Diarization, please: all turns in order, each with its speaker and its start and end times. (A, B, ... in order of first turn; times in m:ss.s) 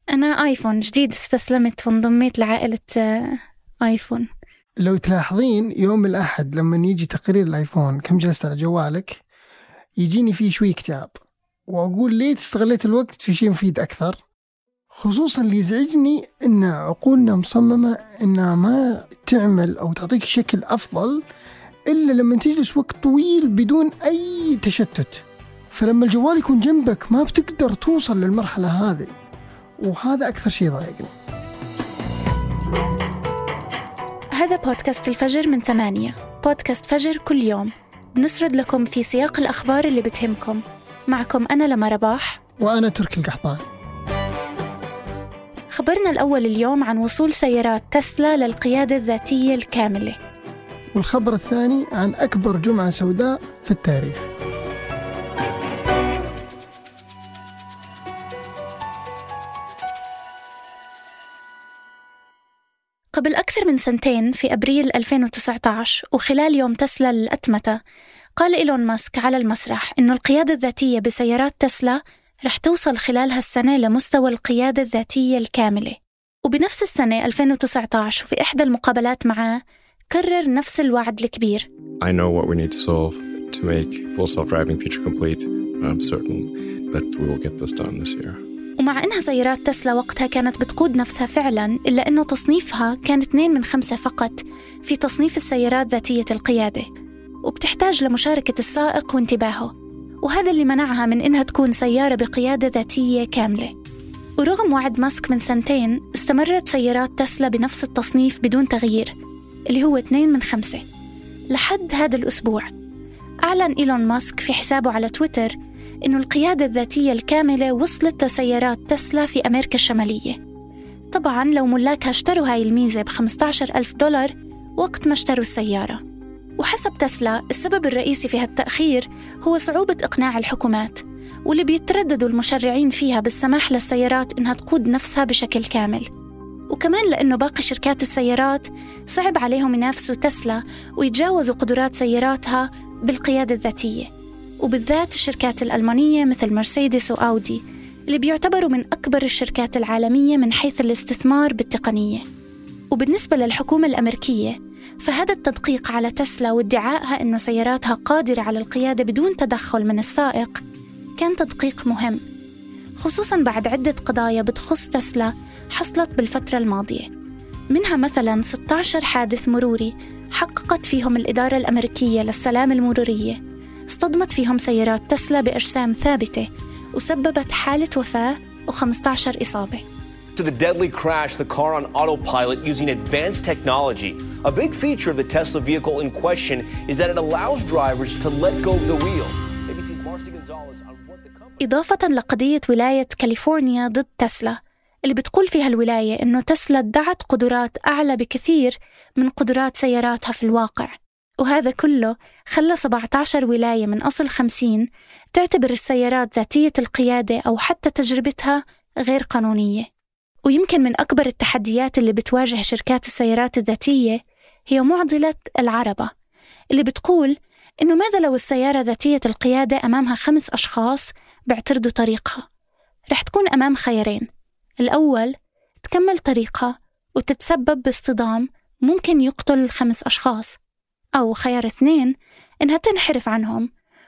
0:00.1-0:04.3 A
0:04.8-0:09.2 B
0:10.0-0:11.1 B
0:11.7-0:14.2 B
0:14.9-0:21.2 B
0:21.9-0:29.1 B
0:29.8-0:31.1 B
0:34.4-0:42.4 A
0:42.6-0:43.6 B
0:45.7-0:50.2 A
0:50.9-0:54.3 B
1:03.1-1:07.8 A
1:08.4-1:19.6 A
1:20.1-1:21.7 A
1:22.0-1:28.4 C
1:28.8-1:36.9 A
1:37.4-1:39.7 A
1:40.2-1:43.7 A
1:44.4-1:49.1 A
1:49.7-1:50.8 A
1:51.5-1:52.7 A
1:53.5-2:00.4 A
2:01.1-2:06.0 A
2:06.6-2:16.1 A
2:16.7-2:24.1 A
2:24.6-2:32.2 A
2:32.9-2:40.6 A
2:41.2-2:42.2 A
2:43.0-2:47.1 A
2:47.7-2:59.8 A
3:00.4-3:11.8 D
3:11.6-3:29.9 A
3:30.5-3:36.1 A
3:36.8-3:42.4 A
3:43.1-3:44.3 A
3:44.8-3:50.5 A
3:51.2-3:52.1 A
3:52.6-3:53.7 A